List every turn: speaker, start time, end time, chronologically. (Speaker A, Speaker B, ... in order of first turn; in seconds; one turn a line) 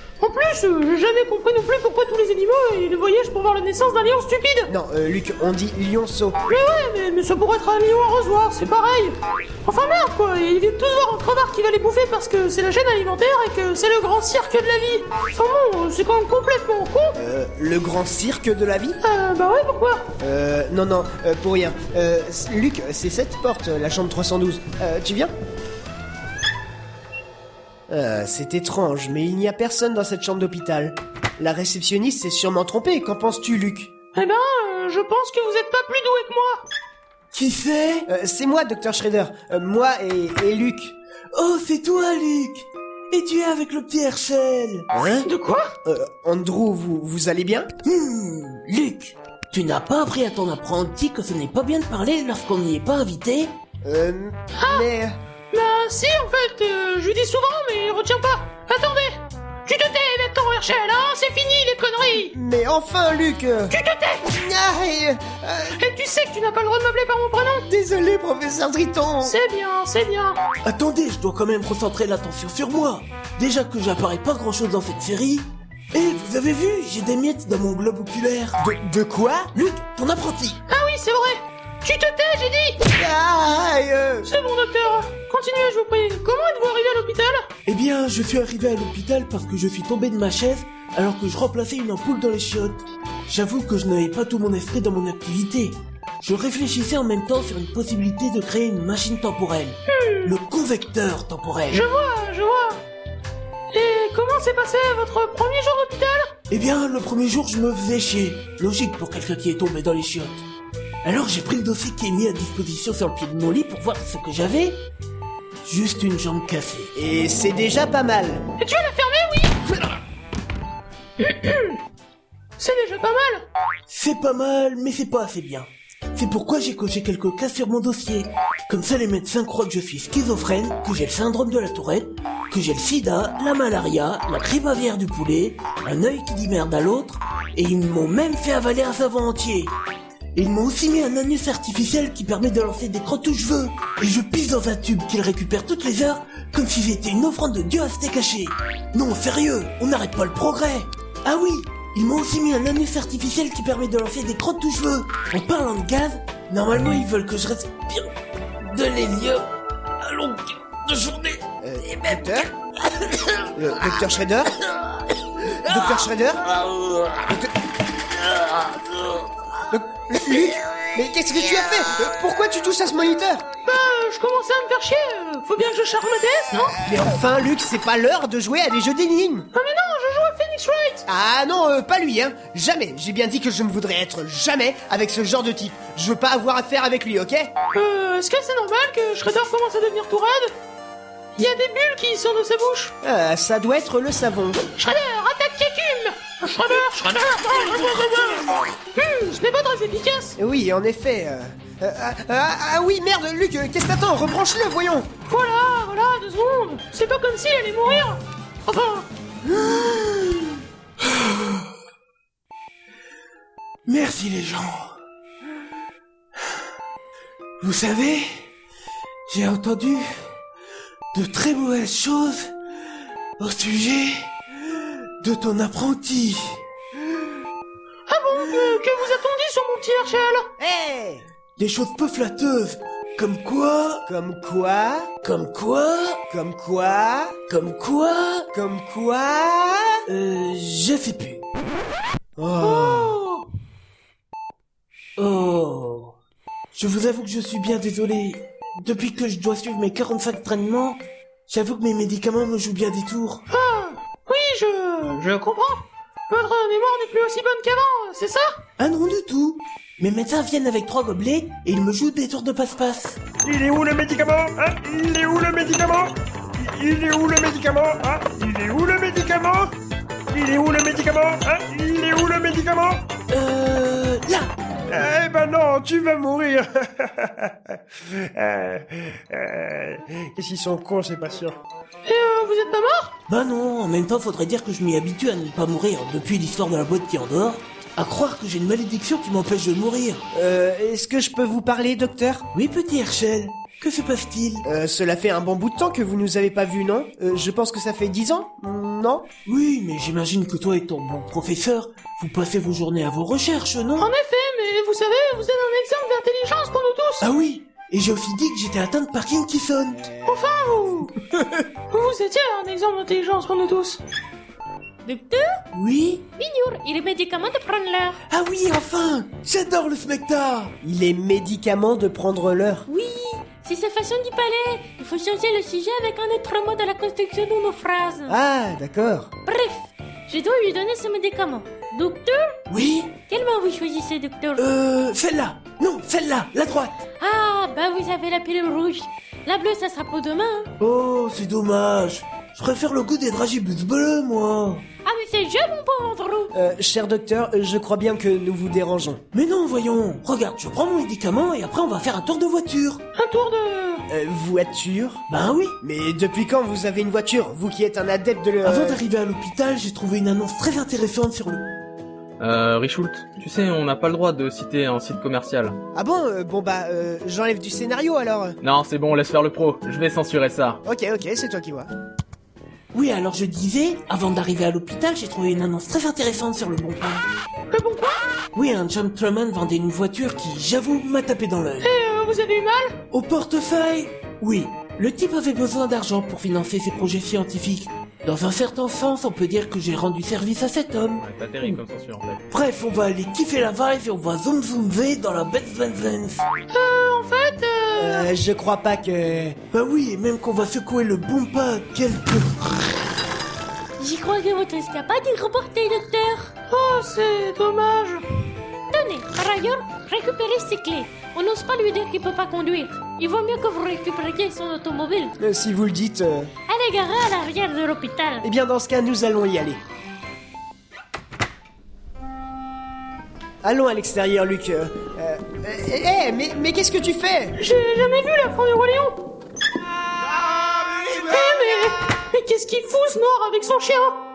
Speaker A: 0.2-4.7
Speaker B: 4.7-6.4
Speaker A: 6.5-17.2
Speaker B: 17.2-19.0
Speaker A: 19.0-20.1
Speaker B: 20.2-25.3
Speaker B: 27.9-33.9
Speaker A: 34.1-36.6
Speaker C: 37.3-38.1
Speaker B: 38.1-41.0
Speaker C: 41.3-44.9
Speaker B: 44.9-45.3
Speaker A: 45.2-45.8
Speaker B: 45.9-47.7
Speaker C: 47.8-53.5
Speaker B: 53.8-55.2
Speaker A: 54.5-54.9
Speaker A: 55.5-62.3
Speaker B: 62.2-65.8
Speaker A: 63.7-64.3
Speaker A: 65.8-67.7
Speaker B: 67.7-69.4
Speaker A: 69.2-70.4
Speaker C: 70.6-78.6
Speaker B: 78.6-79.5
Speaker C: 79.5-80.6
Speaker A: 80.7-82.8
Speaker B: 83.0-84.3
Speaker A: 84.2-87.5
Speaker C: 87.7-101.9
Speaker A: 99.9-100.3
Speaker A: 101.7-102.8
Speaker A: 103.7-106.3
Speaker C: 106.5-110.4
Speaker C: 111.0-114.8
Speaker C: 115.6-116.9
Speaker B: 117.0-118.5
Speaker A: 118.6-119.6
Speaker A: 121.2-121.8
Speaker A: 122.6-123.5
Speaker C: 123.9-139.7
Speaker C: 140.3-159.5
Speaker C: 160.0-162.2
Speaker B: 161.6-162.5
Speaker C: 163.2-163.5
Speaker B: 163.6-164.5
Speaker C: 165.5-166.0
Speaker B: 165.7-166.5
Speaker B: 169.7-173.4
Speaker A: 173.7-176.8
Speaker B: 176.8-179.5
Speaker A: 179.5-181.1
Speaker B: 181.1-187.5
Speaker A: 187.7-190.5
Speaker A: 191.4-192.9
Speaker B: 193.0-194.6
Speaker A: 194.8-200.4
Speaker B: 200.4-205.1
Speaker A: 205.3-209.1
Speaker C: 209.5-211.7
Speaker C: 213.9-215.0
Speaker C: 217.6-218.5
Speaker C: 219.3-220.2
Speaker C: 221.1-222.5
Speaker C: 223.4-226.6
Speaker A: 228.1-230.5
Speaker B: 230.6-231.2
Speaker C: 231.6-234.1
Speaker B: 234.1-235.1
Speaker C: 235.2-236.2
Speaker B: 236.3-237.4
Speaker C: 237.5-238.5
Speaker B: 238.5-240.0
Speaker C: 240.1-241.4
Speaker B: 242.4-243.2
Speaker A: 242.6-243.5
Speaker C: 245.2-246.2
Speaker C: 246.7-253.4
Speaker A: 253.5-258.6
Speaker C: 258.8-263.2
Speaker D: 263.4-269.7
Speaker D: 270.3-273.1
Speaker C: 273.3-274.5
Speaker D: 274.9-281.6
Speaker A: 282.1-283.1
Speaker C: 283.3-290.2
Speaker B: 290.3-292.5
Speaker C: 292.5-294.7
Speaker B: 294.6-299.3
Speaker C: 299.5-304.1
Speaker A: 304.0-307.2
Speaker C: 307.2-310.1
Speaker B: 310.0-310.7
Speaker A: 310.2-311.1
Speaker A: 311.9-314.0
Speaker E: 315.0-315.6
Speaker C: 315.7-316.3
Speaker E: 316.4-318.2
Speaker C: 318.3-320.8
Speaker B: 320.8-322.9
Speaker E: 322.9-328.4
Speaker B: 328.3-329.3
Speaker E: 329.4-332.6
Speaker C: 332.7-333.2
Speaker E: 333.3-334.6
Speaker C: 334.6-336.9
Speaker E: 337.2-340.7
Speaker C: 340.8-344.9
Speaker E: 345.1-346.5
Speaker B: 346.5-349.2
Speaker C: 349.3-353.0
Speaker A: 353.1-354.1
Speaker B: 354.1-355.2
Speaker C: 355.3-355.8
Speaker B: 355.8-359.0
Speaker C: 358.6-361.7
Speaker F: 362.4-365.8
Speaker B: 365.9-368.6
Speaker F: 368.6-370.8
Speaker B: 370.8-371.9
Speaker C: 372.9-377.2
Speaker A: 377.7-378.2
Speaker C: 378.6-381.9
Speaker A: 381.8-383.0
Speaker C: 383.1-391.8
Speaker F: 391.2-392.4
Speaker C: 392.5-396.4
Speaker A: 396.7-398.3
Speaker B: 398.0-399.6
Speaker C: 399.7-402.7
Speaker E: 404.0-406.5
Speaker A: 406.7-408.2
Speaker E: 408.9-415.4
Speaker B: 415.4-416.5
Speaker E: 416.7-418.5
Speaker B: 418.4-419.8
Speaker B: 423.6-427.6
Speaker A: 427.6-429.2
Speaker A: 431.1-434.2